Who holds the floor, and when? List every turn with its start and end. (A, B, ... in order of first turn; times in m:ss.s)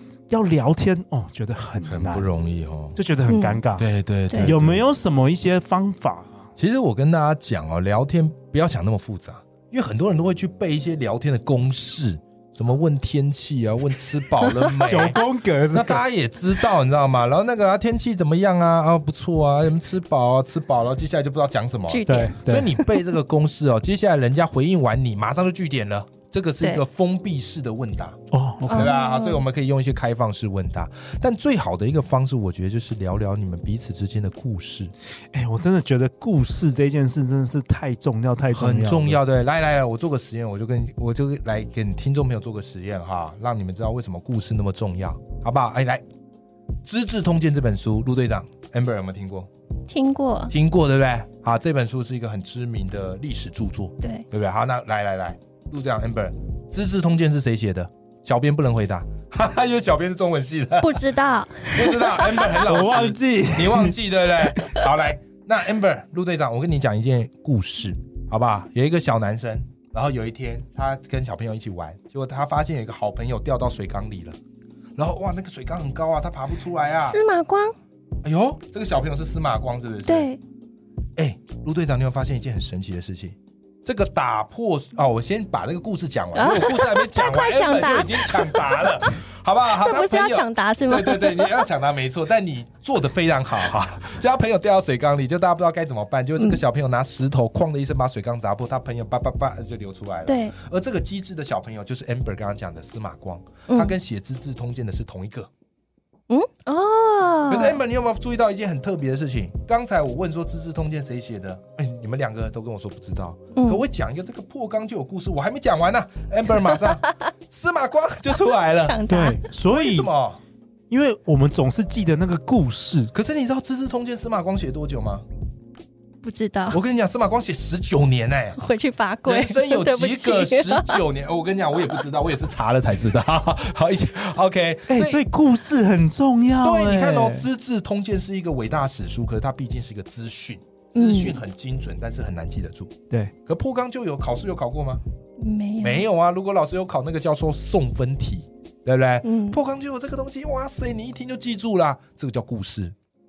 0:00.3-0:02.2 A
0:01.8-0:03.0 B
0:03.0-0:03.9 A
0:03.3-0:03.6 C
0:03.8-0:04.8 B
0:04.4-0:06.3 A
0:06.6-0:15.2 B
0:14.8-0:16.0 A
0:15.7-0:28.2 B
0:21.9-0:23.0 C
0:22.0-0:22.7 A
0:28.3-0:28.9 A
0:28.7-0:29.4 C
0:28.7-0:34.9 B
0:35.3-0:39.2 A
0:38.5-0:46.0 B
0:46.8-0:49.5 B
0:49.9-0:50.5 C
0:50.5-1:01.1 B
1:00.8-1:02.7 C
1:01.6-1:14.4 B
1:02.6-1:04.0 A
1:15.0-1:17.2 B
1:17.0-1:17.7 C
1:18.2-1:20.3 B
1:20.0-1:20.4 C
1:21.2-1:45.5 B
1:26.3-1:28.9 C
1:29.7-1:31.7 C
1:40.3-1:40.5 C
1:43.7-1:43.9 C
1:46.3-1:47.8 C
1:47.5-1:59.0 B
1:53.6-1:53.8 C
1:58.7-1:59.4 C
1:59.1-2:00.1 A
1:59.6-2:00.4 B
2:00.9-2:03.1 A
2:03.1-2:05.2 B
2:06.2-2:06.8 C
2:06.7-2:08.6 B
2:08.6-2:11.0 C
2:09.2-2:15.2 B
2:14.9-2:17.4 A
2:16.6-2:22.9 B
2:21.0-2:21.4 C
2:23.4-2:25.0 B
2:25.4-2:26.0 C
2:25.8-2:32.9 B
2:29.2-2:29.6 C